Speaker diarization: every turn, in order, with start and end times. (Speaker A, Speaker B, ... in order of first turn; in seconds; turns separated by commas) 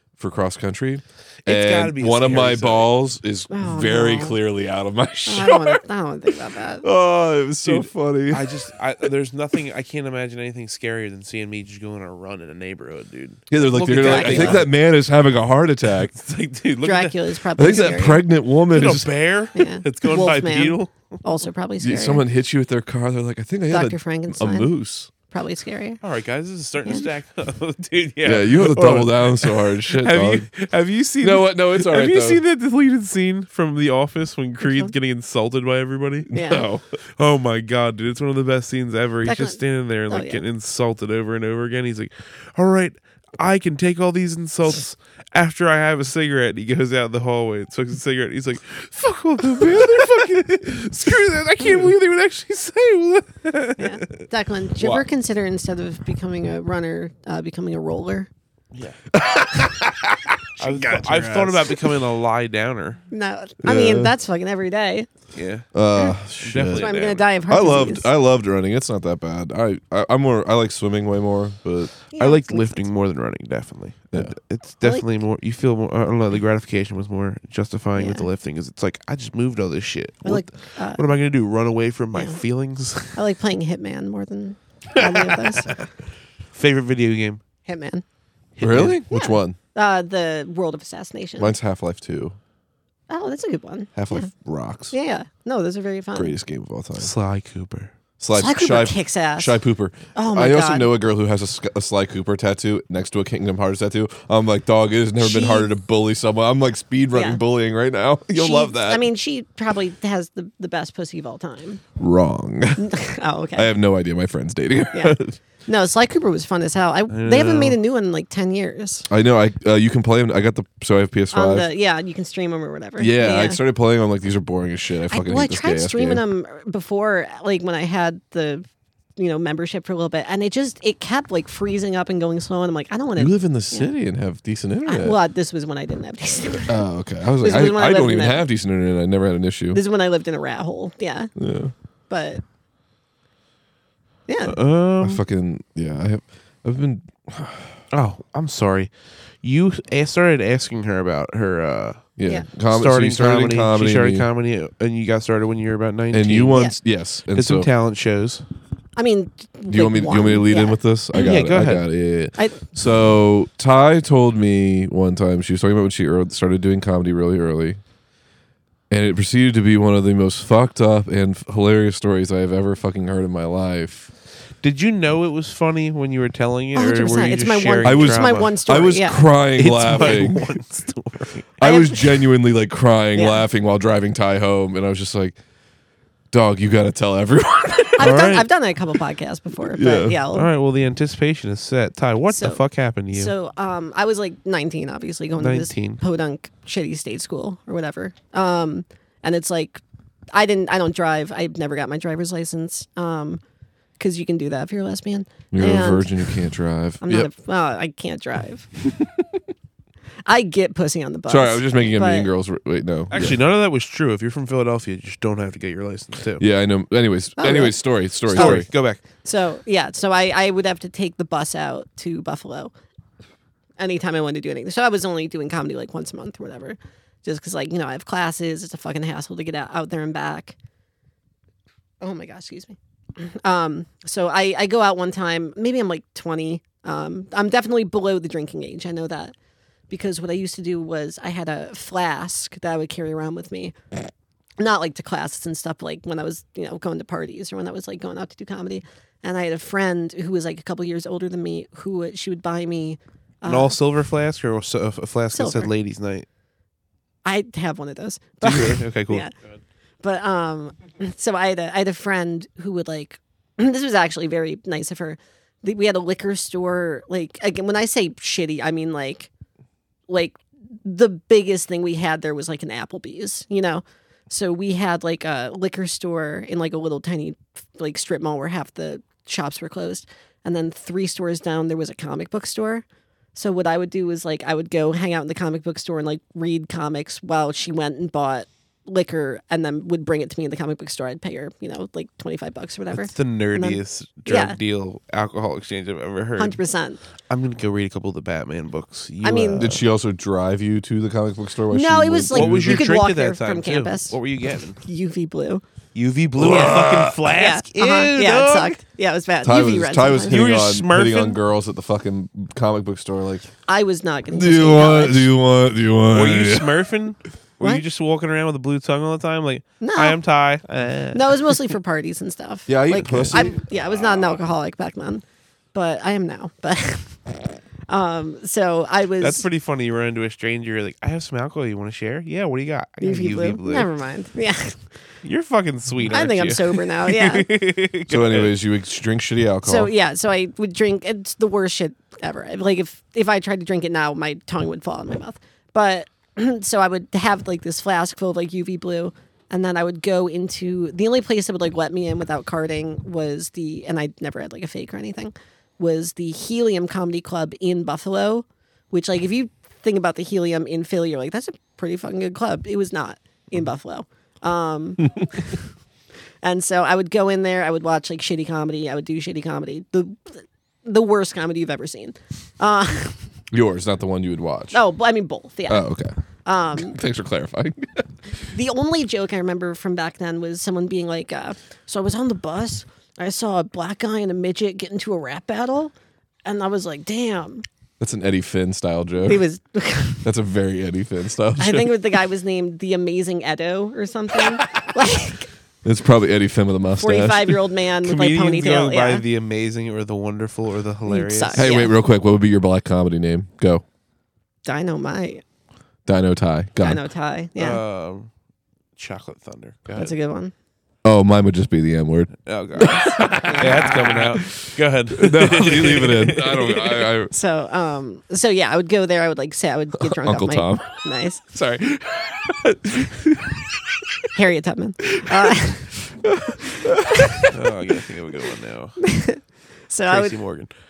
Speaker A: 0.2-5.8, Speaker B: 1.4-2.9, Speaker C: 3.5-4.4, Speaker C: 5.3-6.9, Speaker A: 6.8-8.5, Speaker B: 7.6-14.7, Speaker A: 13.5-16.1, Speaker C: 14.0-14.7, Speaker B: 16.1-17.3, Speaker C: 16.8-18.2, Speaker A: 17.6-19.1, Speaker B: 18.7-21.2, Speaker C: 19.6-22.2, Speaker A: 21.8-25.1, Speaker C: 23.7-24.7, Speaker C: 25.3-26.0, Speaker B: 26.0-54.3, Speaker A: 28.2-30.5, Speaker A: 31.2-32.4, Speaker C: 34.6-34.9, Speaker C: 36.3-36.6, Speaker A: 36.4-36.7, Speaker C: 39.2-40.4, Speaker C: 53.8-58.3, Speaker B: 54.8-55.1, Speaker B: 58.7-59.0, Speaker A: 59.1-62.0, Speaker B: 60.6-63.0, Speaker C: 63.1-65.1, Speaker A: 63.6-64.2, Speaker B: 65.3-65.7, Speaker A: 65.7-71.9, Speaker B: 66.4-67.3, Speaker C: 66.7-68.1, Speaker C: 72.1-72.8, Speaker B: 72.2-83.2, Speaker C: 78.0-78.2, Speaker C: 80.2-81.0, Speaker C: 82.1-82.4, Speaker C: 83.1-85.7, Speaker B: 86.5-87.4, Speaker C: 87.7-88.0, Speaker B: 88.6-89.0, Speaker A: 88.6-89.6, Speaker C: 89.1-91.5, Speaker A: 91.4-92.4, Speaker C: 93.1-94.3, Speaker A: 94.0-94.9, Speaker C: 94.9-96.3, Speaker A: 96.2-97.1, Speaker B: 97.0-97.9, Speaker A: 98.2-109.0, Speaker C: 98.3-99.6, Speaker C: 100.2-100.9, Speaker C: 105.2-105.7, Speaker C: 107.1-107.4, Speaker C: 108.3-111.8, Speaker A: 112.0-112.9, Speaker C: 112.8-113.7, Speaker A: 113.6-115.4, Speaker C: 114.9-119.1, Speaker B: 117.1-117.8, Speaker A: 119.1-121.7, Speaker C: 121.3-123.6, Speaker A: 123.0-126.2, Speaker C: 125.1-128.7, Speaker C: 129.2-133.9, Speaker A: 133.2-135.2, Speaker C: 134.9-136.8, Speaker A: 136.7-139.8, Speaker C: 137.4-138.4, Speaker C: 139.7-141.3, Speaker A: 141.4-141.7, Speaker C: 142.1-142.4, Speaker C: 144.3-144.6, Speaker B: 144.4-145.2, Speaker A: 145.0-147.8, Speaker B: 147.9-156.6, Speaker A: 152.2-154.3, Speaker A: 156.1-157.7, Speaker B: 157.3-158.4, Speaker C: 159.0-160.8, Speaker A: 159.7-167.8, Speaker B: 161.2-161.8, Speaker C: 162.4-162.6, Speaker A: 168.9-174.1, Speaker B: 174.6-178.6, Speaker C: 176.8-179.2, Speaker A: 177.8-180.5, Speaker B: 179.6-181.5, Speaker A: 181.6-185.4, Speaker C: 181.6-182.2, Speaker C: 183.2-183.4, Speaker A: 186.3-188.3, Speaker C: 188.0-190.5, Speaker B: 188.0-188.5, Speaker A: 189.7-190.3, Speaker B: 190.3-193.3, Speaker C: 192.3-192.6, Speaker C: 193.1-199.8, Speaker B: 195.4-196.0, Speaker C: 200.3-203.4, Speaker C: 204.0-206.4, Speaker A: 205.5-207.3, Speaker C: 207.0-208.7, Speaker A: 208.9-209.3, Speaker C: 210.3-212.3, Speaker A: 211.3-213.4, Speaker B: 213.1-216.4, Speaker A: 216.4-218.7, Speaker C: 217.4-222.7, Speaker B: 218.3-219.0, Speaker C: 223.8-230.6, Speaker C: 232.0-239.3, Speaker C: 239.9-253.8, Speaker B: 253.4-256.3, Speaker C: 255.3-255.7, Speaker C: 257.2-259.3, Speaker B: 258.4-259.3, Speaker C: 260.0-269.3, Speaker C: 270.1-294.6, Speaker B: 292.9-296.6, Speaker C: 296.4-297.0, Speaker B: 297.3-299.8, Speaker C: 299.2-299.7, Speaker A: 299.6-302.8, Speaker C: 301.7-304.2, Speaker B: 302.3-304.8, Speaker C: 304.8-305.6, Speaker B: 305.9-308.8, Speaker A: 306.4-307.2, Speaker C: 307.3-310.4, Speaker A: 309.4-313.5, Speaker B: 310.3-311.4, Speaker C: 313.7-315.3, Speaker A: 314.3-316.7, Speaker B: 316.1-321.6, Speaker C: 319.8-320.2, Speaker C: 321.1-325.2, Speaker A: 322.7-323.6, Speaker C: 325.7-329.5, Speaker B: 329.2-333.9, Speaker C: 333.0-334.8, Speaker B: 335.2-338.5, Speaker C: 336.1-337.5, Speaker A: 338.1-339.9, Speaker C: 339.6-365.6, Speaker C: 366.4-373.3, Speaker A: 373.5-374.8, Speaker C: 374.7-375.9, Speaker A: 375.7-376.1, Speaker C: 376.5-377.0, Speaker A: 376.7-378.1, Speaker C: 378.5-385.9, Speaker C: 386.4-387.6, Speaker A: 388.0-389.4, Speaker C: 389.2-390.3, Speaker A: 390.2-392.0, Speaker C: 391.6-395.5, Speaker A: 395.8-397.6, Speaker C: 397.0-399.2, Speaker B: 398.0-401.7, Speaker C: 401.1-401.9, Speaker A: 401.5-403.8, Speaker C: 404.7-405.4, Speaker A: 406.1-407.0, Speaker C: 406.8-407.8, Speaker B: 407.6-408.3, Speaker B: 409.0-410.1, Speaker C: 409.9-410.5, Speaker A: 411.0-414.6, Speaker B: 412.4-417.1, Speaker A: 415.2-417.3, Speaker C: 417.3-421.4, Speaker A: 420.0-420.9, Speaker A: 421.5-423.1, Speaker C: 424.3-426.0, Speaker A: 426.2-427.5, Speaker C: 427.2-427.5, Speaker B: 427.5-429.1, Speaker C: 429.0-430.5, Speaker B: 430.1-430.7